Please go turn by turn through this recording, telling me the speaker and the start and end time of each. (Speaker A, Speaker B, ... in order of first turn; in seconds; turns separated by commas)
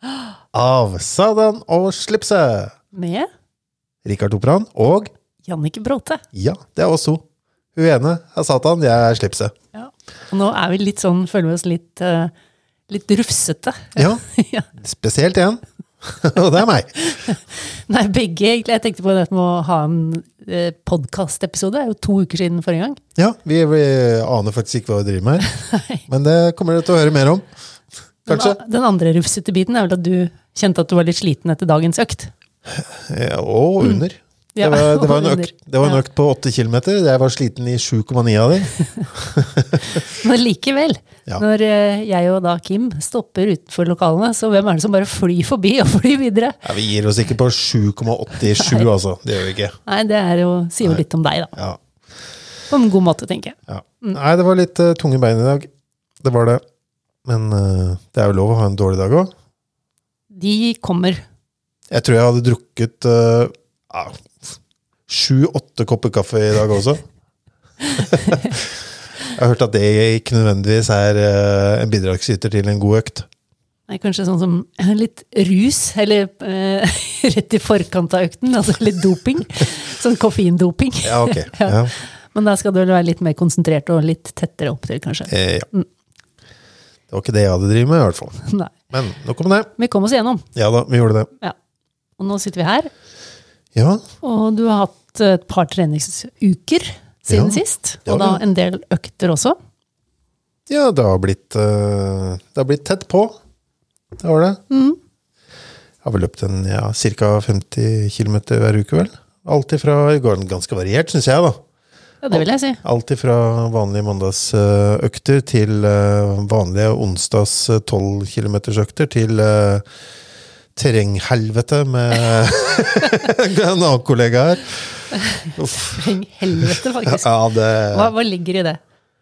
Speaker A: 0.5-2.7, Speaker B: 2.9-3.3, Speaker A: 4.0-5.1, Speaker B: 5.4-6.2, Speaker A: 6.3-7.2, Speaker A: 7.7-9.5, Speaker B: 9.7-12.3, Speaker B: 12.9-14.7, Speaker A: 13.9-14.2, Speaker A: 14.7-17.2, Speaker B: 17.0-23.0, Speaker A: 23.1-25.5, Speaker B: 25.5-26.0, Speaker A: 26.1-27.5, Speaker A: 28.3-28.6, Speaker B: 28.3-32.3, Speaker A: 32.7-40.0, Speaker B: 34.5-36.0, Speaker B: 40.2-46.6, Speaker A: 46.6-49.8, Speaker B: 49.9-51.5, Speaker A: 51.5-51.8, Speaker B: 52.7-54.2, Speaker A: 53.7-55.7, Speaker A: 56.2-56.6, Speaker A: 57.2-59.3, Speaker B: 60.3-61.2, Speaker A: 61.9-64.5, Speaker A: 65.1-67.0, Speaker A: 68.0-68.7, Speaker A: 69.3-73.3, Speaker B: 73.9-85.9, Speaker A: 81.0-81.9, Speaker A: 85.3-85.7, Speaker A: 87.1-89.7, Speaker B: 88.4-88.7, Speaker B: 89.8-90.5, Speaker A: 90.5-91.3, Speaker B: 92.2-92.9, Speaker A: 93.7-94.0, Speaker B: 94.2-99.6, Speaker A: 97.3-98.4, Speaker A: 100.7-103.3, Speaker A: 104.2-104.6, Speaker B: 104.7-105.0, Speaker A: 106.0-111.6, Speaker B: 112.2-112.8, Speaker A: 112.3-119.8, Speaker A: 120.8-128.1, Speaker B: 125.3-127.3, Speaker B: 127.9-128.8